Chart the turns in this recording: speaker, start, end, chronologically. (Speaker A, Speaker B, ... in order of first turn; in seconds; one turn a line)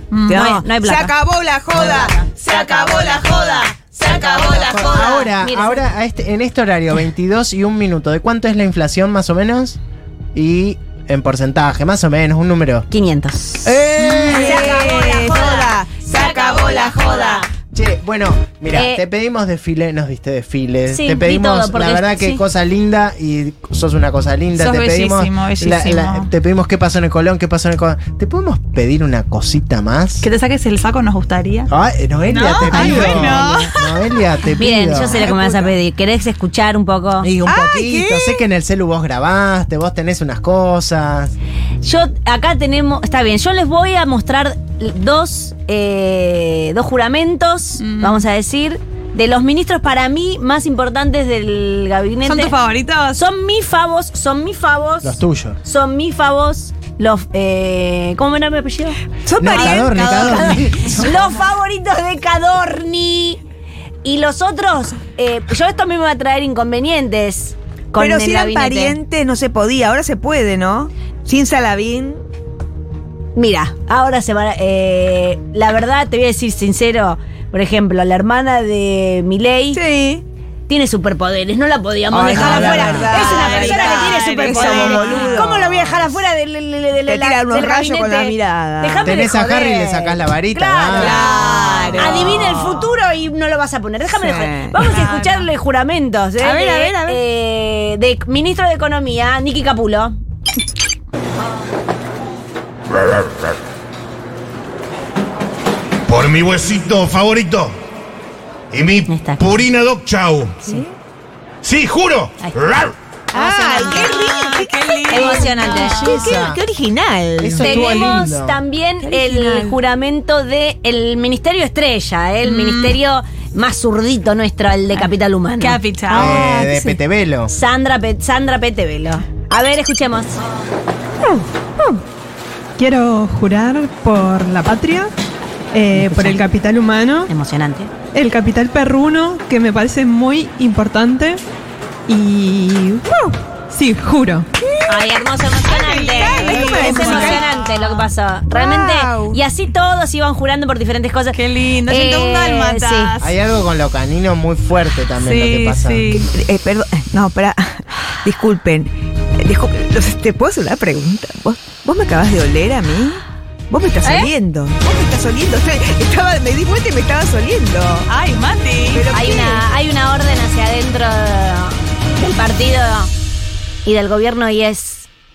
Speaker A: 0.1-0.5
Speaker B: 0.3-5.2
Speaker C: 0.3-1.1
Speaker A: 4.1-5.0
Speaker D: 4.7-9.8
Speaker C: 5.3-5.9
Speaker D: 10.3-12.9
Speaker C: 12.9-13.8
Speaker D: 13.6-14.7
Speaker B: 14.0-17.5
Speaker C: 14.3-17.5
Speaker D: 17.7-30.2
Speaker C: 18.7-19.0
Speaker C: 20.9-22.4
Speaker A: 24.5-26.3
Speaker A: 30.2-31.7
Speaker D: 31.7-35.3
Speaker A: 32.3-34.1
Speaker B: 32.4-33.4
Speaker C: 34.6-37.3
Speaker B: 35.0-35.8
Speaker D: 37.2-41.3
Speaker B: 37.5-38.4
Speaker C: 41.8-52.5
Speaker A: 47.8-48.3
Speaker A: 52.2-53.2
Speaker C: 53.1-59.0
Speaker D: 55.0-55.6
Speaker B: 59.2-60.0
Speaker D: 59.4-61.1
Speaker A: 59.5-60.8
Speaker C: 60.1-63.4
Speaker C: 64.0-69.0
Speaker B: 68.0-72.2
Speaker C: 73.3-79.8
Speaker B: 79.7-80.2
Speaker C: 80.7-100.1
Speaker B: 82.1-86.0
Speaker D: 82.3-83.3
Speaker A: 82.9-85.5
Speaker B: 87.1-89.2
Speaker D: 89.0-91.3
Speaker B: 90.9-92.5
Speaker A: 91.0-92.8
Speaker B: 94.1-94.8
Speaker A: 94.7-95.5
Speaker B: 96.4-97.2
Speaker E: 106.1-107.8
Speaker E: 108.7-110.5
Speaker C: 109.0-109.7
Speaker B: 110.6-110.9
Speaker E: 111.6-112.9
Speaker C: 112.4-112.8
Speaker B: 113.3-118.1
Speaker C: 113.4-114.1
Speaker A: 113.5-116.2
Speaker C: 115.1-116.3
Speaker D: 115.6-116.6
Speaker D: 117.4-118.6
Speaker C: 117.6-127.0
Speaker B: 119.0-119.8
Speaker A: 122.4-123.0
Speaker A: 125.6-126.4
Speaker D: 126.1-127.5
Speaker C: 127.5-130.3
Speaker F: 131.3-131.9
Speaker F: 132.8-135.1
Speaker F: 135.7-137.3
Speaker C: 135.9-136.4
Speaker C: 137.3-137.9
Speaker F: 138.1-141.4
Speaker F: 142.1-143.1
Speaker F: 143.7-144.5
Speaker B: 144.6-147.5
Speaker C: 144.9-153.1
Speaker A: 146.1-148.1
Speaker B: 148.5-149.4
Speaker A: 151.3-153.3
Speaker D: 153.2-156.2
Speaker A: 155.2-156.3
Speaker B: 156.2-168.1
Speaker C: 164.0-164.3
Speaker A: 168.1-169.1
Speaker B: 168.9-169.6
Speaker C: 169.1-173.1
Speaker C: 173.8-175.1